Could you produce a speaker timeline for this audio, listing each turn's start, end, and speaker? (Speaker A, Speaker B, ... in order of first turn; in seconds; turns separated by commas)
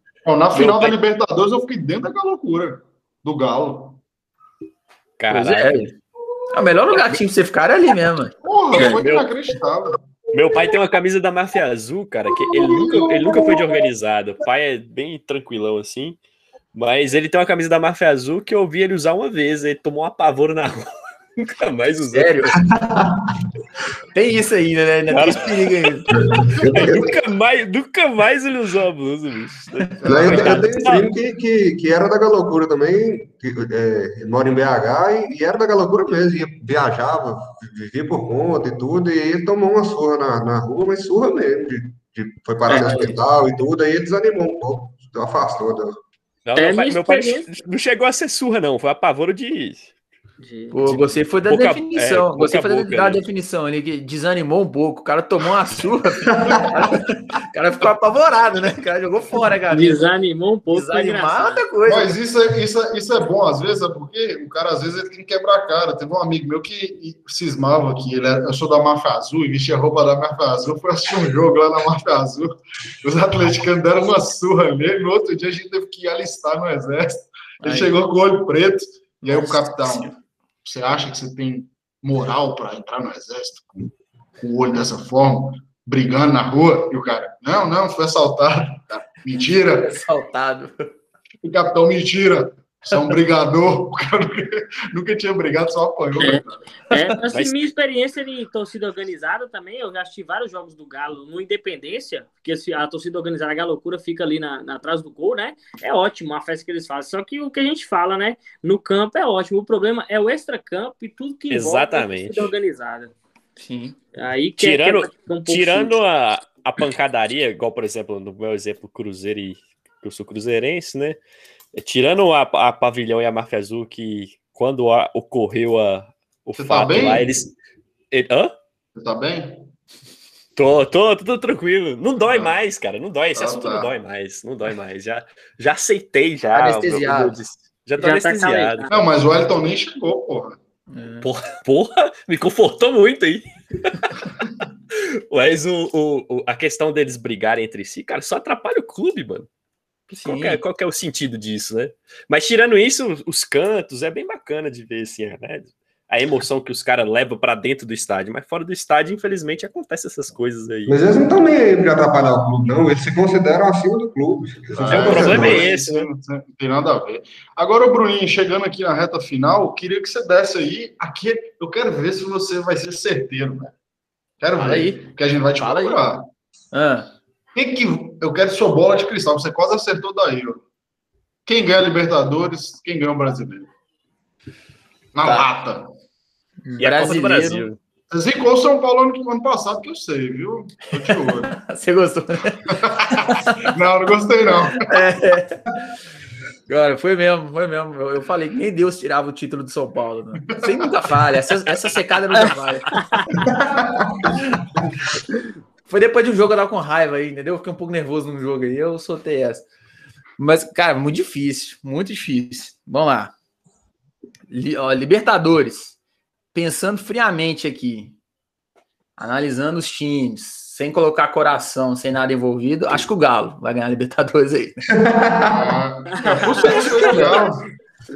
Speaker A: 0.2-4.0, Speaker B: 0.5-0.9, Speaker C: 5.2-5.8, Speaker B: 5.3-5.9, Speaker B: 6.5-9.0, Speaker A: 8.4-10.0, Speaker D: 8.8-9.0, Speaker C: 8.9-9.2, Speaker C: 10.3-16.2, Speaker C: 16.7-22.5, Speaker B: 22.1-22.6, Speaker E: 22.8-23.1, Speaker B: 24.1-26.4, Speaker C: 25.1-31.1, Speaker E: 26.2-27.1, Speaker A: 30.0-30.6, Speaker E: 30.1-46.0, Speaker B: 30.2-30.6, Speaker D: 42.7-43.1, Speaker B: 42.7-43.1, Speaker C: 46.5-49.9, Speaker D: 46.5-47.5, Speaker D: 50.4-50.8, Speaker B: 50.7-60.0, Speaker C: 50.8-53.2, Speaker D: 59.7-61.6, Speaker B: 60.7-62.1, Speaker A: 61.9-80.1, Speaker B: 77.6-78.0, Speaker B: 79.2-80.2, Speaker A: 80.6-89.9, Speaker B: 89.8-90.9, Speaker A: 91.4-96.6, Speaker D: 96.2-113.1, Speaker C: 111.5-112.5, Speaker B: 113.6-114.0, Speaker D: 114.1-116.0, Speaker C: 114.6-121.2, Speaker C: 121.7-127.5, Speaker A: 126.6-127.3, Speaker C: 128.1-128.5, Speaker A: 128.9-129.7, Speaker C: 130.6-138.9, Speaker A: 132.3-132.6, Speaker A: 133.3-133.9, Speaker B: 136.5-137.4, Speaker D: 138.0-139.0, Speaker A: 138.9-140.6, Speaker B: 140.9-141.3, Speaker C: 141.2-144.1, Speaker C: 144.9-149.5, Speaker B: 150.1-150.6, Speaker C: 150.2-161.0, Speaker E: 160.9-165.7, Speaker A: 164.7-173.7, Speaker C: 164.8-166.1, Speaker A: 174.4-176.3, Speaker B: 174.5-175.0, Speaker B: 175.6-176.0, Speaker B: 176.7-177.1, Speaker A: 177.5-180.6, Speaker A: 181.4-183.7, Speaker A: 185.1-185.9, Speaker B: 186.6-187.6, Speaker C: 186.8-187.8, Speaker A: 188.1-191.5, Speaker B: 191.0-193.7, Speaker A: 192.7-194.9, Speaker B: 194.8-195.9, Speaker B: 196.7-203.1, Speaker A: 200.4-200.9, Speaker D: 202.9-203.3, Speaker E: 203.4-204.4, Speaker B: 205.8-209.7, Speaker B: 210.4-213.3, Speaker B: 214.5-215.9, Speaker B: 216.5-218.2, Speaker B: 219.2-224.8, Speaker E: 225.0-225.7, Speaker A: 225.5-227.6, Speaker D: 226.2-226.7, Speaker B: 226.6-227.2, Speaker E: 226.8-227.5